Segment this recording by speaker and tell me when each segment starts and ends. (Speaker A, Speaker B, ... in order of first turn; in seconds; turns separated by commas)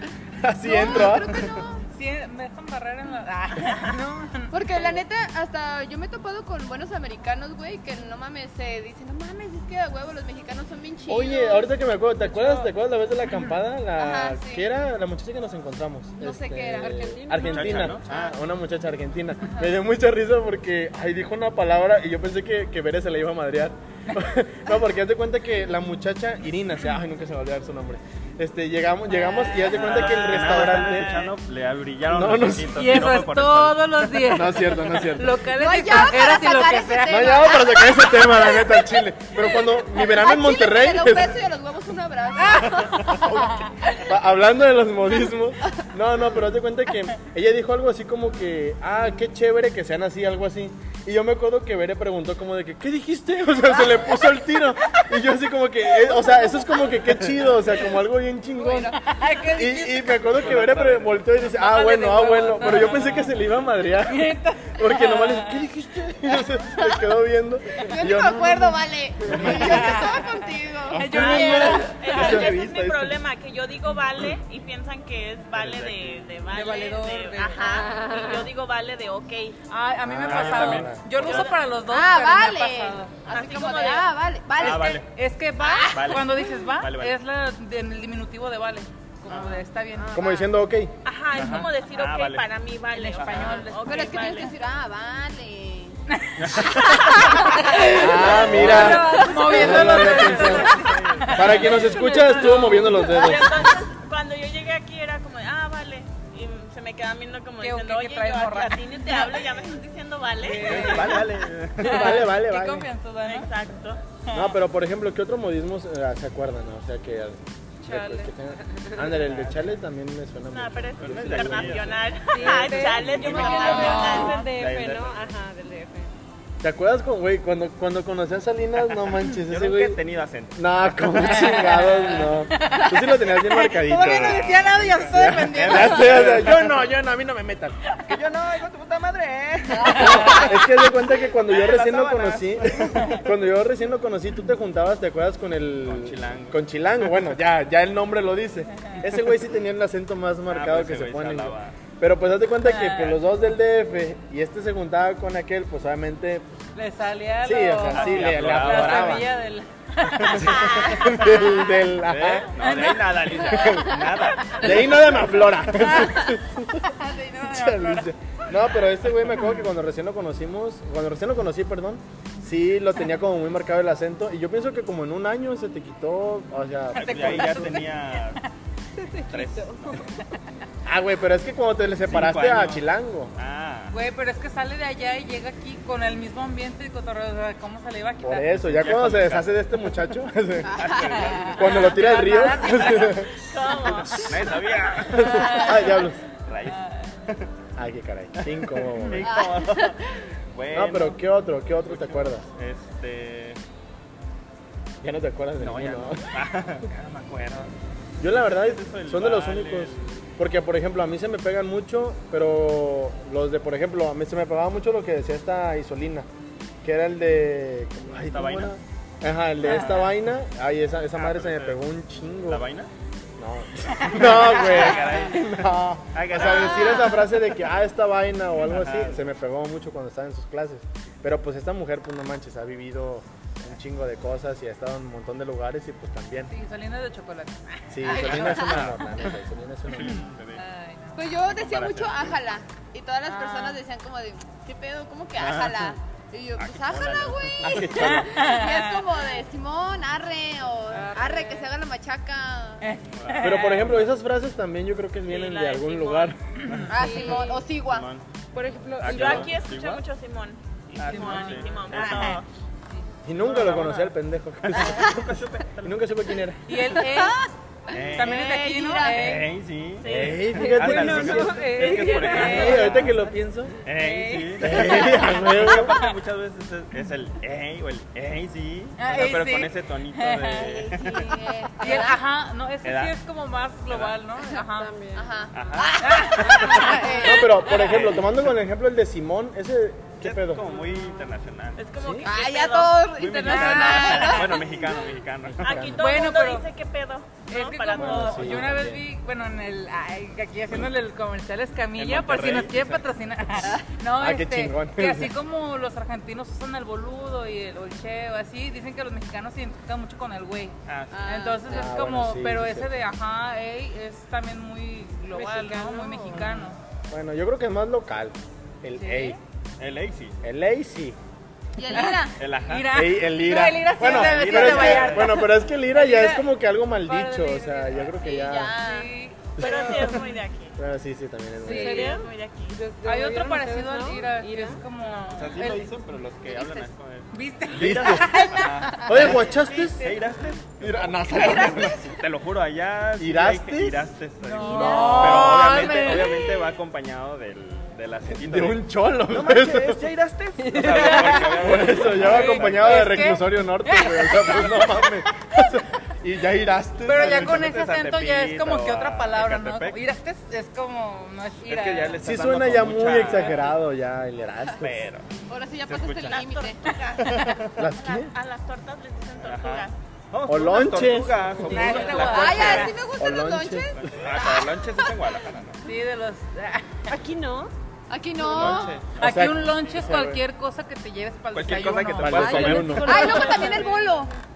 Speaker A: 0.4-1.5, Speaker B: 0.7-1.8, Speaker C: 0.8-1.1, Speaker C: 1.9-4.6, Speaker B: 4.5-12.7, Speaker A: 11.1-31.2, Speaker B: 14.0-14.7, Speaker B: 16.2-18.4, Speaker D: 16.8-18.0, Speaker E: 17.4-18.1, Speaker E: 29.6-34.2, Speaker F: 30.3-31.3, Speaker A: 32.1-32.8, Speaker C: 32.8-37.4, Speaker A: 34.3-35.4, Speaker B: 35.5-43.4, Speaker A: 37.1-41.4, Speaker A: 42.9-59.0, Speaker B: 58.5-59.1, Speaker C: 59.0-60.5, Speaker A: 59.5-70.1, Speaker E: 60.4-61.4, Speaker C: 61.5-63.4, Speaker C: 64.0-65.7, Speaker B: 67.8-71.6, Speaker E: 69.3-69.9, Speaker C: 69.6-70.2, Speaker A: 70.9-73.2, Speaker C: 70.9-72.5, Speaker F: 71.2-79.6, Speaker E: 75.5-76.2, Speaker C: 76.5-78.0, Speaker D: 77.7-78.5, Speaker C: 79.7-83.1, Speaker A: 80.1-81.0, Speaker E: 80.2-81.5, Speaker F: 81.2-81.5, Speaker B: 81.9-85.0, Speaker F: 83.3-84.1, Speaker E: 84.6-85.1, Speaker C: 84.6-90.3, Speaker B: 85.6-86.2, Speaker E: 85.9-87.2, Speaker E: 89.3-89.6, Speaker A: 90.1-90.9, Speaker F: 91.0-94.5, Speaker E: 91.3-92.5, Speaker C: 91.4-91.7, Speaker C: 92.9-94.5, Speaker E: 93.1-93.7, Speaker B: 93.8-96.0, Speaker E: 96.4-97.6, Speaker B: 97.1-99.2, Speaker C: 97.1-103.4, Speaker D: 97.8-100.4, Speaker A: 97.9-103.7, Speaker E: 98.5-99.0, Speaker E: 100.7-101.8, Speaker F: 102.9-111.2, Speaker C: 107.6-109.5, Speaker C: 110.4-113.5, Speaker E: 110.6-112.1, Speaker A: 111.8-112.9, Speaker F: 113.2-114.0, Speaker C: 114.3-114.5, Speaker A: 114.3-122.0, Speaker D: 117.8-119.0, Speaker E: 119.2-119.8, Speaker F: 120.5-124.5, Speaker E: 121.0-125.3, Speaker D: 122.3-126.1, Speaker C: 123.3-124.5, Speaker B: 123.4-124.2, Speaker A: 126.6-130.0, Speaker E: 129.3-131.4, Speaker A: 130.6-137.8, Speaker C: 131.2-136.6, Speaker E: 133.9-136.7, Speaker E: 138.1-140.6, Speaker C: 139.8-140.4, Speaker A: 139.9-156.5, Speaker E: 141.3-143.2, Speaker E: 145.8-146.6, Speaker E: 150.5-151.8, Speaker C: 152.6-153.2, Speaker C: 156.8-161.6, Speaker A: 157.4-159.3, Speaker E: 157.9-159.3, Speaker E: 160.2-165.9, Speaker A: 160.2-162.5, Speaker C: 162.6-168.1, Speaker A: 163.5-164.0, Speaker A: 164.5-177.7, Speaker E: 176.9-178.4, Speaker C: 176.9-178.4, Speaker D: 177.6-177.8, Speaker D: 179.0-180.0, Speaker E: 179.3-180.1, Speaker A: 180.9-183.3, Speaker E: 182.0-184.0, Speaker C: 183.9-188.8, Speaker A: 188.2-191.0, Speaker E: 188.6-189.5, Speaker E: 190.7-192.0, Speaker C: 191.2-193.3, Speaker A: 191.6-193.4, Speaker F: 193.4-194.3, Speaker E: 193.7-197.5, Speaker A: 195.0-196.2, Speaker C: 195.2-195.8, Speaker A: 197.8-199.3, Speaker E: 198.4-200.0, Speaker B: 199.2-199.9, Speaker E: 200.5-201.2, Speaker A: 200.7-202.4, Speaker E: 201.8-203.6, Speaker A: 205.0-206.3, Speaker E: 205.6-207.7, Speaker A: 208.2-216.3, Speaker E: 208.2-210.2, Speaker A: 216.8-222.6, Speaker E: 218.2-218.7, Speaker C: 219.7-220.1, Speaker E: 221.2-221.8, Speaker E: 222.5-222.9, Speaker A: 223.4-236.5, Speaker E: 224.2-227.1, Speaker B: 226.4-227.3, Speaker E: 228.7-229.2, Speaker C: 236.5-238.7, Speaker A: 237.9-240.3, Speaker E: 238.1-239.4, Speaker E: 239.9-240.7, Speaker C: 240.6-241.3, Speaker B: 241.2-252.8, Speaker E: 241.5-242.3, Speaker C: 243.3-243.8, Speaker E: 245.4-246.0, Speaker E: 246.6-248.4, Speaker A: 247.7-248.1, Speaker C: 248.0-249.0, Speaker D: 250.9-251.7, Speaker C: 252.8-253.8, Speaker E: 253.0-254.1, Speaker A: 253.4-256.4, Speaker F: 255.3-256.4, Speaker E: 256.7-258.3, Speaker B: 256.9-258.1, Speaker D: 256.9-257.7, Speaker D: 258.5-259.6, Speaker E: 258.9-260.0, Speaker F: 259.0-262.4, Speaker E: 260.9-262.4, Speaker C: 261.0-262.4, Speaker A: 263.2-265.3, Speaker E: 263.4-266.4, Speaker A: 265.8-266.6, Speaker C: 266.7-267.4, Speaker B: 266.8-269.4, Speaker E: 267.9-268.6, Speaker C: 268.1-269.5, Speaker E: 269.1-273.3, Speaker F: 270.0-270.5, Speaker A: 270.1-271.6, Speaker D: 270.5-273.1, Speaker C: 271.3-272.9, Speaker A: 272.3-273.7, Speaker E: 273.8-281.4, Speaker D: 273.9-275.3, Speaker A: 274.6-276.1, Speaker C: 279.0-281.2, Speaker B: 280.6-282.2, Speaker C: 281.8-284.9, Speaker E: 282.8-283.1, Speaker E: 283.9-284.1, Speaker D: 284.6-285.3, Speaker B: 285.1-287.5, Speaker E: 285.5-287.0, Speaker C: 286.0-287.5, Speaker A: 287.2-290.6, Speaker E: 287.7-288.4, Speaker E: 290.2-291.9, Speaker F: 291.8-293.1, Speaker A: 292.0-292.3, Speaker B: 292.2-294.9, Speaker E: 293.1-295.9, Speaker C: 293.5-294.4, Speaker A: 295.6-296.0, Speaker F: 295.6-298.5, Speaker C: 296.0-296.7, Speaker C: 297.5-316.8, Speaker A: 297.9-299.0, Speaker E: 302.0-303.0, Speaker A: 304.2-305.3, Speaker E: 310.9-311.3, Speaker B: 311.1-311.8, Speaker A: 311.7-312.9, Speaker D: 315.3-316.7, Speaker A: 317.1-319.4, Speaker C: 319.0-319.4, Speaker E: 319.8-320.4, Speaker A: 320.4-321.2, Speaker B: 321.8-322.4, Speaker C: 321.9-326.5, Speaker E: 322.4-323.0, Speaker A: 322.9-328.8, Speaker E: 324.0-325.4, Speaker C: 327.0-328.1, Speaker B: 328.2-329.1, Speaker C: 328.8-330.1, Speaker A: 329.6-330.2, Speaker F: 329.6-330.8, Speaker A: 330.8-332.1, Speaker C: 331.6-332.1, Speaker D: 331.6-334.8, Speaker F: 331.8-332.8, Speaker C: 333.0-335.9, Speaker E: 335.2-353.3, Speaker B: 336.5-336.9, Speaker C: 337.3-339.4, Speaker A: 337.8-338.4, Speaker A: 339.0-340.2, Speaker A: 340.8-342.1, Speaker A: 343.2-344.1, Speaker C: 344.5-346.6, Speaker D: 344.5-345.9, Speaker A: 348.3-350.0, Speaker D: 350.6-351.7, Speaker C: 350.9-351.4, Speaker A: 350.9-357.7, Speaker C: 352.0-355.1, Speaker C: 357.1-362.2, Speaker E: 357.2-360.0, Speaker E: 361.6-363.8, Speaker A: 362.2-365.1, Speaker E: 364.8-365.3, Speaker B: 365.5-366.9, Speaker E: 365.9-366.4, Speaker F: 366.2-369.9, Speaker E: 367.1-367.8, Speaker A: 367.8-368.3, Speaker E: 369.4-373.0, Speaker A: 370.5-372.1, Speaker C: 371.6-372.9, Speaker D: 371.9-372.3, Speaker B: 372.0-374.7, Speaker A: 373.2-374.0, Speaker E: 374.0-375.9, Speaker C: 375.9-376.9, Speaker D: 377.1-377.7, Speaker B: 378.1-379.0, Speaker E: 378.4-379.2, Speaker A: 379.2-380.4, Speaker C: 379.2-384.1, Speaker E: 381.5-383.4, Speaker A: 382.2-383.4, Speaker D: 382.4-384.1, Speaker B: 383.0-384.3